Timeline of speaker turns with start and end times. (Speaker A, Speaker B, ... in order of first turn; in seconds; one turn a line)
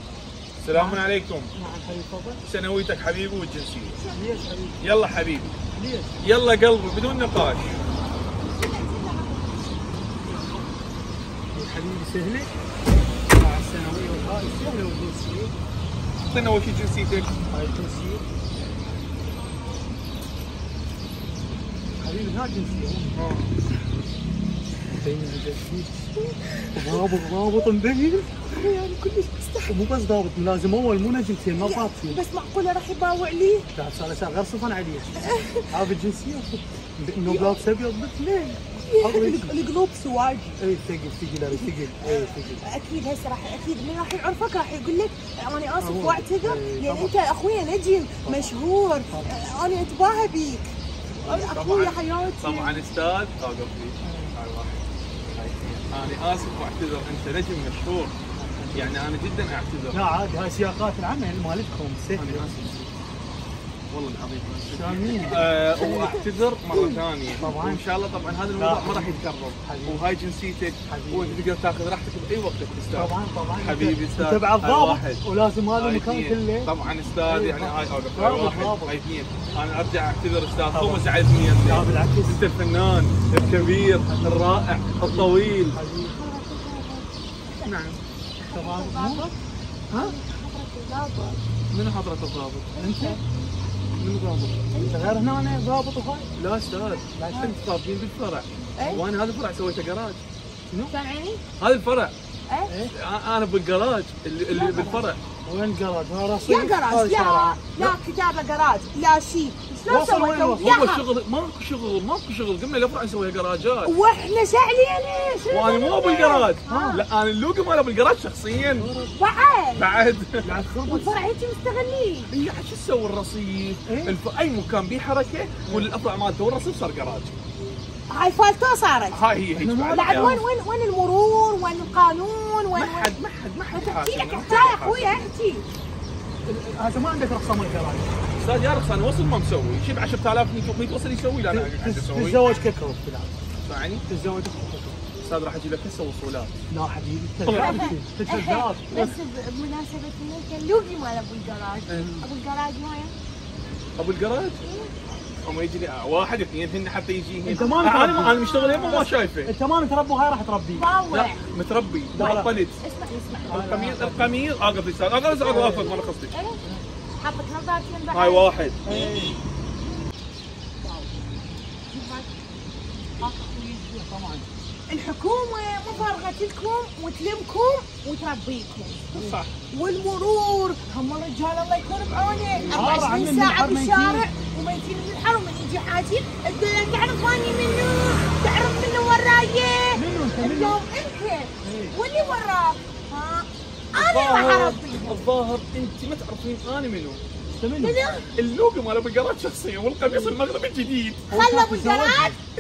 Speaker A: 0.6-1.5
Speaker B: 0.7-1.0
Speaker B: 1.5-2.4
Speaker A: 2.4-4.0
Speaker C: 4.0-4.5
Speaker B: 4.1-4.8
Speaker A: 4.8-5.6
Speaker B: 5.7-6.2
Speaker A: 6.2-7.8
Speaker C: 8.4-10.6
Speaker B: 11.5-12.5
Speaker B: 13.3-15.6
Speaker A: 16.2-17.4
Speaker B: 17.5-18.2
Speaker B: 22.0-23.2
Speaker A: 23.1-23.6
Speaker B: 25.0-25.9
Speaker C: 26.2-27.0
Speaker B: 26.7-28.7
Speaker C: 28.5-29.8
Speaker B: 29.7-32.2
Speaker C: 31.6-33.7
Speaker B: 33.8-39.6
Speaker C: 35.2-35.7
Speaker C: 37.2-37.6
Speaker C: 38.8-40.6
Speaker B: 40.6-42.6
Speaker C: 41.5-52.9
Speaker B: 45.8-47.1
Speaker B: 48.2-48.5
Speaker B: 49.1-49.5
Speaker A: 51.2-58.2
Speaker B: 54.0-54.3
Speaker B: 58.4-59.0
Speaker A: 58.7-60.0
Speaker B: 59.9-62.5
Speaker A: 62.1-62.9
Speaker A: 63.9-75.2
Speaker B: 64.7-66.2
Speaker C: 65.3-66.2
Speaker C: 66.7-67.0
Speaker B: 67.4-67.8
Speaker B: 68.5-70.0
Speaker B: 70.9-71.4
Speaker B: 72.9-79.0
Speaker A: 75.8-85.8
Speaker B: 80.7-81.1
Speaker B: 81.6-82.5
Speaker B: 83.4-84.2
Speaker B: 85.1-86.2
Speaker C: 86.0-87.7
Speaker A: 87.7-88.0
Speaker C: 88.4-89.4
Speaker B: 88.5-89.3
Speaker C: 89.9-91.4
Speaker A: 91.7-92.7
Speaker C: 92.7-93.2
Speaker B: 92.8-93.2
Speaker A: 94.0-94.6
Speaker C: 94.7-95.2
Speaker B: 94.8-96.3
Speaker A: 96.4-100.2
Speaker B: 97.2-97.6
Speaker B: 98.8-99.1
Speaker C: 100.9-101.4
Speaker A: 101.6-102.2
Speaker B: 102.7-102.9
Speaker A: 102.9-105.2
Speaker C: 104.5-105.0
Speaker B: 104.7-108.0
Speaker C: 106.4-111.0
Speaker B: 109.9-110.8
Speaker A: 110.6-113.9
Speaker C: 113.9-117.0
Speaker A: 115.5-118.9
Speaker B: 116.7-117.0
Speaker B: 118.8-119.2
Speaker C: 119.1-119.9
Speaker A: 119.8-120.6
Speaker B: 120.4-121.2
Speaker C: 120.9-122.3
Speaker A: 122.3-127.3
Speaker B: 123.9-124.2
Speaker C: 128.1-129.2
Speaker A: 129.1-130.4
Speaker B: 129.6-130.4
Speaker C: 129.9-133.2
Speaker A: 132.7-135.2
Speaker C: 133.7-135.7
Speaker B: 136.5-138.2
Speaker A: 138.4-142.4
Speaker B: 141.5-143.3
Speaker A: 143.6-144.1
Speaker B: 144.1-145.0
Speaker A: 145.2-146.5
Speaker B: 146.7-149.1
Speaker A: 147.4-147.9
Speaker C: 147.5-153.2
Speaker A: 151.9-152.2
Speaker A: 154.0-154.6
Speaker C: 154.6-154.9
Speaker A: 155.4-159.5
Speaker B: 157.4-160.9
Speaker C: 157.5-159.1
Speaker C: 160.7-161.5
Speaker A: 161.1-162.8
Speaker B: 162.1-162.6
Speaker C: 162.2-163.7
Speaker B: 163.5-164.4
Speaker A: 163.5-166.3
Speaker B: 165.3-166.0
Speaker C: 165.7-169.3
Speaker A: 168.1-168.8
Speaker B: 168.8-169.4
Speaker C: 170.8-171.3
Speaker C: 171.9-172.3
Speaker B: 173.2-174.5
Speaker C: 174.9-195.3
Speaker B: 179.1-179.4
Speaker A: 179.2-179.5
Speaker B: 182.7-184.3
Speaker B: 189.9-190.8
Speaker B: 191.6-192.0
Speaker A: 193.9-197.2
Speaker B: 197.6-198.0
Speaker C: 197.8-198.3
Speaker A: 198.4-201.3
Speaker B: 201.3-202.4
Speaker C: 201.3-202.4